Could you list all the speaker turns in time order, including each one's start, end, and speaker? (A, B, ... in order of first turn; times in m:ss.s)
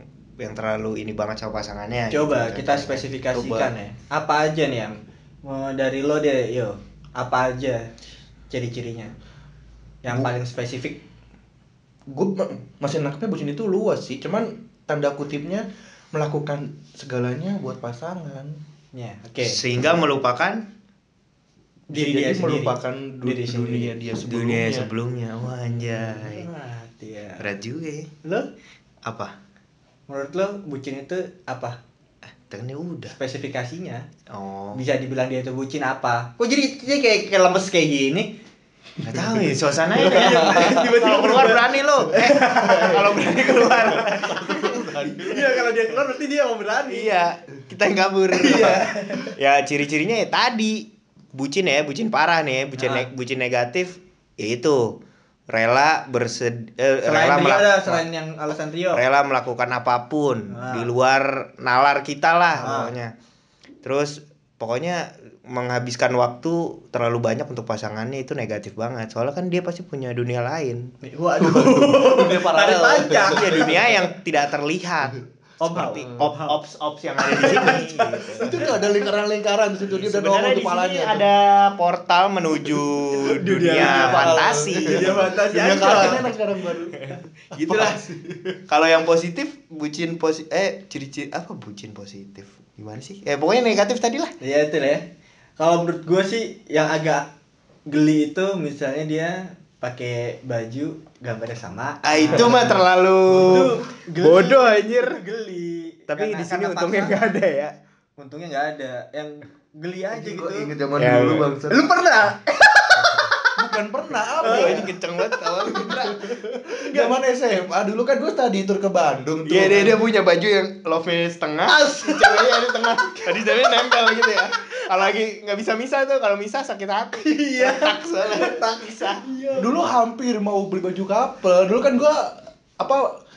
0:00.4-0:03.1 A
0:02.1-0:07.9 B
0:03.3-0:03.7 C
0:08.5-0:09.1 B
0:10.0-0:11.0 B
0:12.1-0:18.6 C
0:18.9-0:19.6 B
0:19.4-0:20.7 A
0:21.9-0:24.0 B
0:21.9-0:24.9 C
0:24.2-0:26.5 A
0:25.8-0:27.5 B
0:27.4-0:28.1 A
0:28.2-0:28.5 B
0:29.0-0:29.3 A
0:30.1-0:31.8 B
0:32.5-0:33.2 A
0:33.2-0:34.1 B
0:34.3-0:34.8 A
0:34.7-0:38.3 B
0:39.0-0:40.8 C
0:39.0-0:44.8 A
0:39.9-0:47.2 B
0:42.7-0:43.0 C
0:44.1-0:45.6 C
0:46.9-0:55.0 A
0:48.3-0:49.3 B
0:52.8-0:53.1 B
0:55.5-0:58.0 A
0:57.0-0:59.0 B
0:58.9-1:03.1 A
1:00.5-1:00.9 B
1:02.6-1:02.9 B
1:03.8-1:10.9 A
1:11.0-1:13.8 B
1:11.4-1:13.9 C
1:13.3-1:18.8 A
1:15.6-1:16.6 B
1:17.2-1:18.7 B
1:18.3-1:21.2 C
1:19.9-1:26.2 A
1:23.1-1:26.3 B
1:23.6-1:28.5 C
1:27.0-1:28.0 A
1:28.7-1:34.3 A
1:34.4-1:35.0 B
1:35.6-1:37.3 B
1:37.9-1:47.3 B
1:42.0-1:45.2 A
1:46.1-1:47.8 A
1:48.2-1:50.7 B
1:50.1-1:51.8 C
1:51.0-1:51.5 A
1:51.7-1:53.6 B
1:53.0-1:53.3 A
1:53.6-1:54.9 C
1:54.4-1:54.9 B
1:54.4-1:56.6 A
1:55.7-2:00.0 C
1:56.8-1:57.2 B
1:59.5-2:09.2 A
2:01.7-2:03.7 B
2:07.2-2:09.7 B
2:09.6-2:13.1 C